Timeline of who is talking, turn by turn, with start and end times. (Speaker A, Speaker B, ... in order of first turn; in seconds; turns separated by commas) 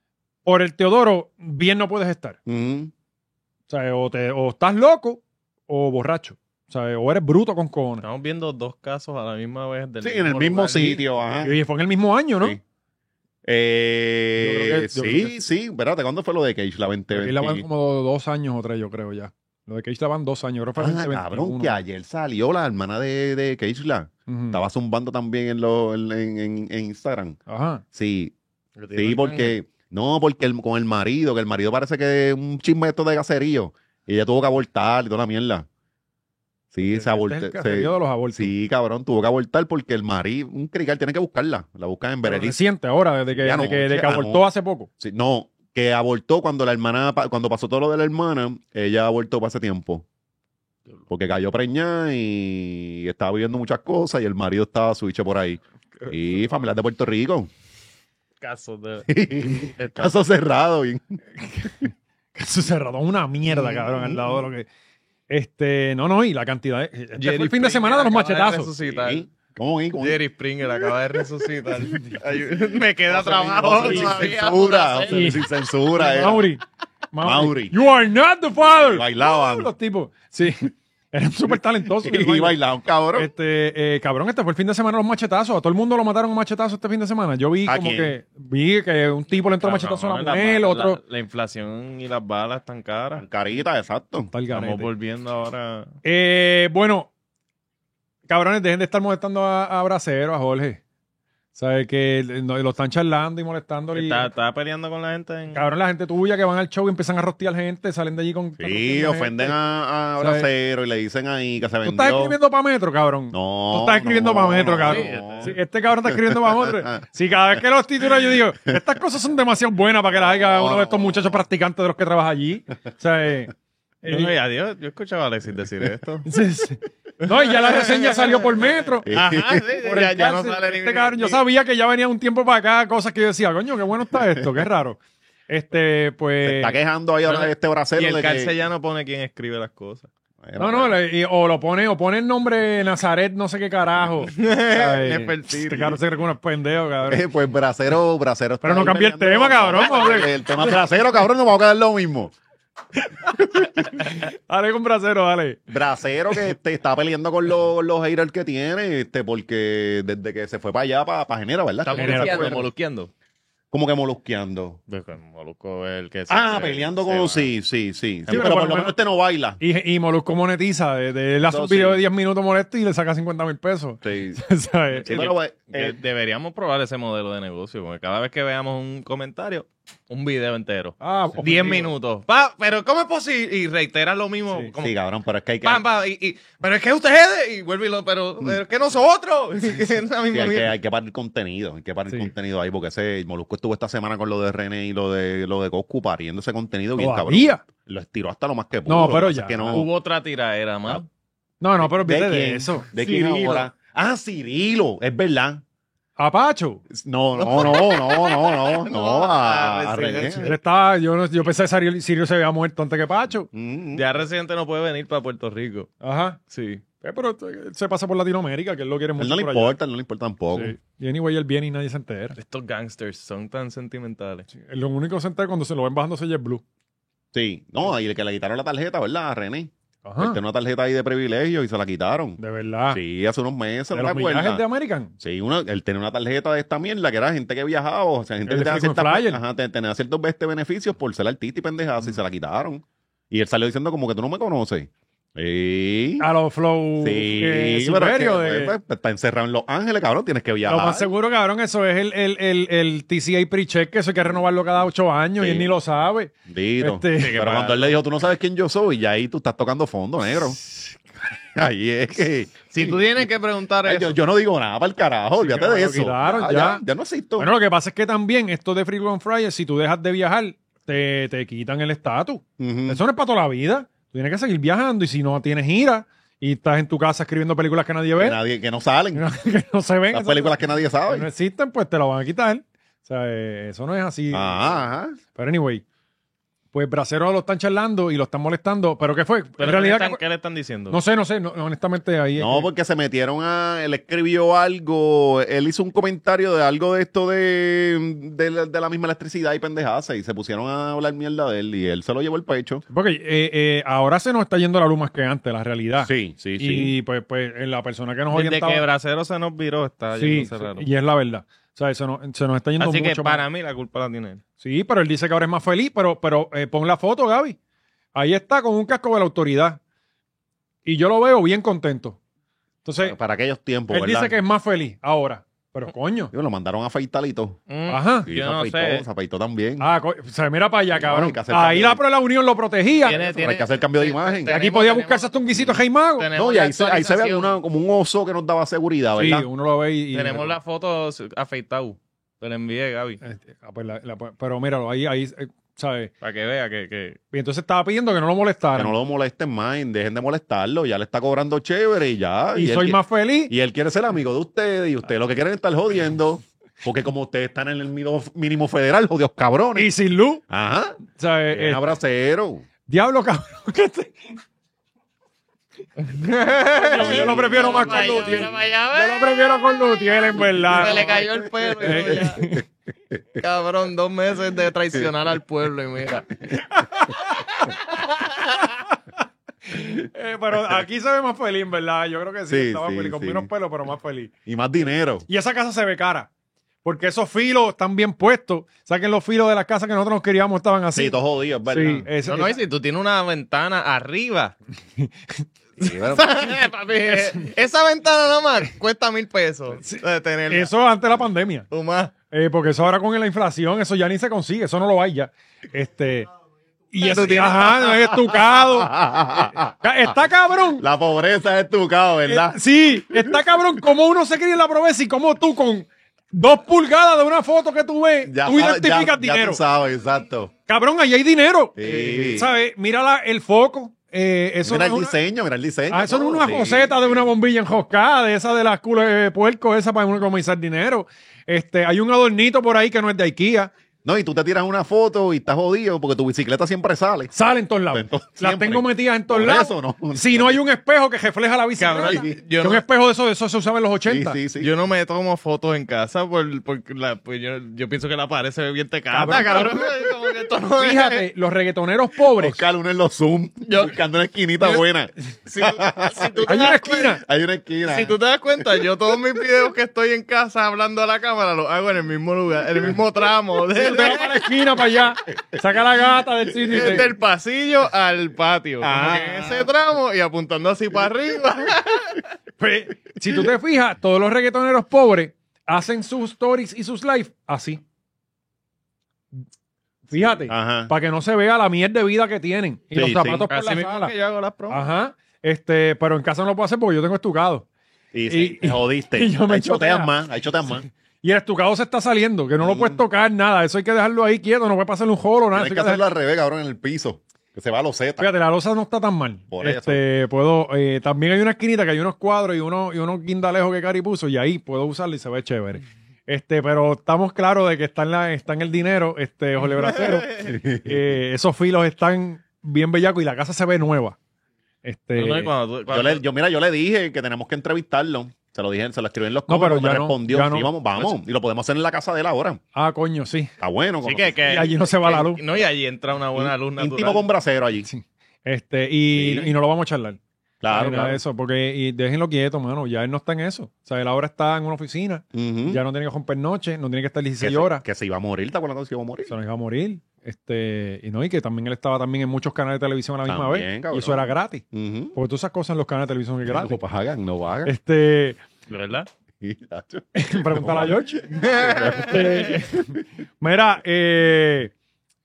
Speaker A: 0.4-2.4, Speaker B: 2.5-2.9, Speaker A: 3.7-8.0, Speaker C: 8.0-11.0, Speaker B: 10.0-11.6, Speaker A: 11.4-12.6, Speaker B: 13.4-17.6, Speaker A: 14.4-15.3, Speaker A: 17.1-21.8, Speaker B: 20.8-27.4, Speaker A: 24.3-24.6, Speaker A: 27.5-27.8, Speaker B: 27.9-28.3, Speaker C: 28.8-29.5, Speaker B: 28.9-35.6, Speaker B: 36.7-42.6, Speaker A: 36.8-38.5, Speaker A: 42.2-44.9, Speaker B: 43.3-44.5, Speaker B: 45.0-50.0, Speaker B: 51.1-57.5, Speaker C: 58.4-60.1, Speaker B: 59.1-61.2, Speaker A: 61.4-64.7, Speaker B: 63.5-64.3, Speaker A: 65.3-68.7, Speaker C: 67.2-69.2, Speaker B: 68.8-70.2, Speaker C: 70.0-75.4, Speaker B: 73.1-76.5, Speaker A: 73.7-74.2, Speaker A: 75.1-75.4, Speaker A: 75.9-82.6, Speaker B: 77.2-77.7, Speaker B: 78.6-79.7, Speaker B: 82.0-83.3, Speaker A: 83.1-91.0, Speaker B: 87.7-88.1, Speaker C: 89.6-93.2, Speaker B: 93.2-94.3, Speaker A: 94.3-94.9, Speaker C: 94.5-95.9, Speaker A: 96.0-97.1, Speaker A: 98.3-100.8, Speaker A: 101.5-104.3, Speaker C: 103.9-105.7, Speaker A: 105.5-109.5, Speaker B: 108.6-112.4, Speaker A: 110.2-110.5, Speaker A: 111.8-123.5, Speaker B: 113.3-115.5, Speaker C: 114.8-115.5, Speaker B: 116.1-116.9, Speaker B: 120.4-121.3, Speaker A: 124.0-124.3, Speaker C: 124.0-126.3, Speaker A: 126.3-129.1, Speaker C: 127.2-131.4, Speaker B: 129.1-129.6, Speaker A: 129.8-136.8, Speaker B: 136.4-138.5, Speaker C: 137.2-140.1, Speaker B: 140.4-140.9, Speaker A: 140.6-147.2, Speaker C: 144.3-146.0, Speaker B: 147.1-152.3, Speaker A: 148.6-150.7, Speaker A: 153.3-155.6, Speaker B: 155.7-162.7, Speaker C: 161.8-163.1, Speaker A: 161.9-162.6, Speaker B: 163.7-164.8, Speaker C: 164.9-167.5, Speaker B: 166.3-169.6, Speaker A: 168.3-168.9, Speaker A: 169.6-175.3, Speaker B: 171.5-172.0, Speaker B: 174.0-174.4, Speaker C: 175.0-184.9, Speaker B: 175.1-176.0, Speaker A: 181.0-181.9, Speaker B: 184.8-185.8, Speaker C: 185.6-190.7, Speaker B: 190.3-199.9, Speaker A: 197.0-197.6, Speaker A: 198.9-199.8, Speaker C: 199.7-201.1, Speaker A: 201.6-203.7, Speaker B: 201.8-205.6, Speaker A: 206.2-206.8, Speaker B: 206.9-210.5, Speaker C: 207.4-210.5, Speaker A: 210.4-213.5, Speaker B: 213.5-214.1, Speaker C: 213.9-215.9, Speaker A: 216.0-216.4, Speaker C: 216.5-216.8, Speaker A: 217.0-219.7, Speaker B: 219.2-220.7, Speaker A: 220.5-222.4, Speaker C: 222.4-224.5, Speaker A: 224.6-226.6, Speaker B: 227.3-232.4, Speaker A: 230.1-230.4, Speaker A: 232.4-233.0, Speaker B: 232.9-234.6, Speaker A: 233.9-235.1, Speaker B: 235.2-246.3, Speaker A: 238.5-239.4, Speaker A: 246.2-248.8, Speaker B: 247.0-251.1, Speaker A: 250.7-257.4, Speaker B: 255.4-255.7, Speaker B: 256.5-260.6, Speaker C: 257.2-258.0, Speaker B: 261.6-263.2, Speaker C: 262.7-264.1, Speaker B: 263.8-267.5, Speaker A: 265.4-266.8, Speaker A: 267.4-278.4, Speaker B: 272.6-273.0, Speaker B: 278.2-279.3, Speaker A: 279.1-284.8, Speaker B: 280.1-281.3, Speaker B: 284.3-285.2, Speaker A: 285.3-285.8, Speaker A: 286.7-290.2, Speaker C: 289.6-291.0, Speaker A: 290.9-292.7, Speaker B: 292.4-302.8, Speaker A: 302.9-308.8, Speaker B: 306.0-306.9, Speaker C: 308.3-310.9, Speaker A: 310.2-313.4, Speaker C: 312.8-314.4, Speaker A: 314.6-317.6, Speaker A: 318.1-319.8, Speaker A: 320.8-322.2, Speaker A: 322.8-323.1, Speaker B: 323.0-324.4, Speaker A: 323.9-326.3, Speaker B: 326.3-327.6, Speaker C: 327.7-329.1, Speaker A: 327.9-328.3, Speaker B: 328.3-329.9, Speaker A: 329.8-333.2, Speaker B: 330.9-332.0, Speaker C: 333.0-335.3, Speaker B: 333.1-334.6, Speaker A: 334.5-336.3, Speaker C: 336.2-337.6, Speaker B: 336.3-339.5, Speaker A: 339.1-340.6, Speaker C: 340.1-343.2, Speaker A: 343.2-346.1, Speaker C: 346.2-347.2, Speaker A: 347.3-348.9, Speaker B: 348.7-359.9, Speaker A: 352.6-353.5, Speaker A: 359.8-360.4, Speaker B: 360.5-362.6, Speaker A: 361.1-361.8, Speaker A: 362.9-364.3, Speaker C: 366.0-369.4, Speaker A: 366.8-371.2, Speaker B: 366.9-368.6, Speaker B: 370.6-373.4, Speaker C: 370.7-372.4, Speaker A: 371.8-372.6, Speaker C: 373.4-376.3, Speaker A: 376.7-377.7, Speaker C: 378.0-378.6, Speaker A: 379.7-384.3, Speaker B: 382.5-383.5, Speaker B: 384.4-385.3, Speaker A: 385.3-386.3, Speaker A: 386.8-391.1, Speaker B: 390.9-392.1, Speaker A: 391.7-392.6, Speaker C: 392.2-394.6, Speaker A: 395.0-395.4, Speaker B: 395.8-396.5, Speaker C: 395.8-400.7, Speaker A: 399.8-401.7, Speaker C: 401.7-402.1, Speaker A: 402.3-406.3, Speaker A: 406.9-409.0, Speaker C: 407.0-407.9, Speaker B: 408.4-409.7, Speaker A: 409.8-410.8, Speaker B: 410.8-413.6, Speaker A: 412.3-419.6, Speaker B: 418.2-420.5, Speaker A: 420.7-425.1, Speaker B: 421.8-422.5, Speaker C: 421.8-422.3, Speaker B: 424.6-427.3, Speaker A: 425.9-433.7, Speaker B: 434.1-437.3, Speaker A: 437.3-444.4, Speaker B: 437.9-440.6, Speaker C: 441.8-442.8, Speaker B: 442.0-442.3, Speaker B: 444.1-444.7, Speaker C: 444.6-451.2, Speaker A: 449.1-449.7, Speaker A: 450.8-452.6, Speaker B: 452.4-458.1, Speaker C: 453.7-453.9, Speaker C: 455.4-457.2, Speaker A: 456.4-457.2, Speaker C: 457.9-464.4, Speaker A: 463.8-467.1, Speaker C: 466.7-472.2, Speaker B: 466.7-467.0, Speaker B: 468.8-469.7, Speaker A: 472.6-477.8, Speaker A: 480.1-484.1, Speaker B: 480.1-480.9, Speaker B: 482.9-483.4, Speaker C: 483.5-484.9, Speaker A: 484.7-487.6, Speaker B: 488.1-490.9, Speaker A: 488.3-490.1, Speaker A: 491.2-496.0, Speaker B: 492.6-493.0, Speaker B: 495.5-498.3, Speaker A: 498.2-514.2, Speaker B: 499.5-500.0, Speaker C: 509.7-510.4, Speaker B: 510.4-511.1, Speaker A: 514.8-515.5, Speaker C: 515.1-516.2, Speaker B: 515.9-522.6, Speaker A: 519.5-520.7, Speaker A: 522.7-523.5, Speaker B: 523.6-524.4, Speaker C: 524.0-527.3, Speaker A: 524.4-525.4, Speaker B: 526.3-527.9, Speaker A: 527.9-537.8, Speaker B: 529.1-529.5, Speaker B: 530.6-531.2, Speaker B: 535.3-535.8, Speaker B: 537.4-539.3, Speaker A: 539.3-546.8, Speaker B: 543.3-545.1, Speaker B: 546.5-547.7, Speaker A: 547.6-548.4, Speaker C: 548.7-549.1, Speaker B: 549.4-553.0, Speaker A: 550.1-554.7, Speaker C: 551.4-552.4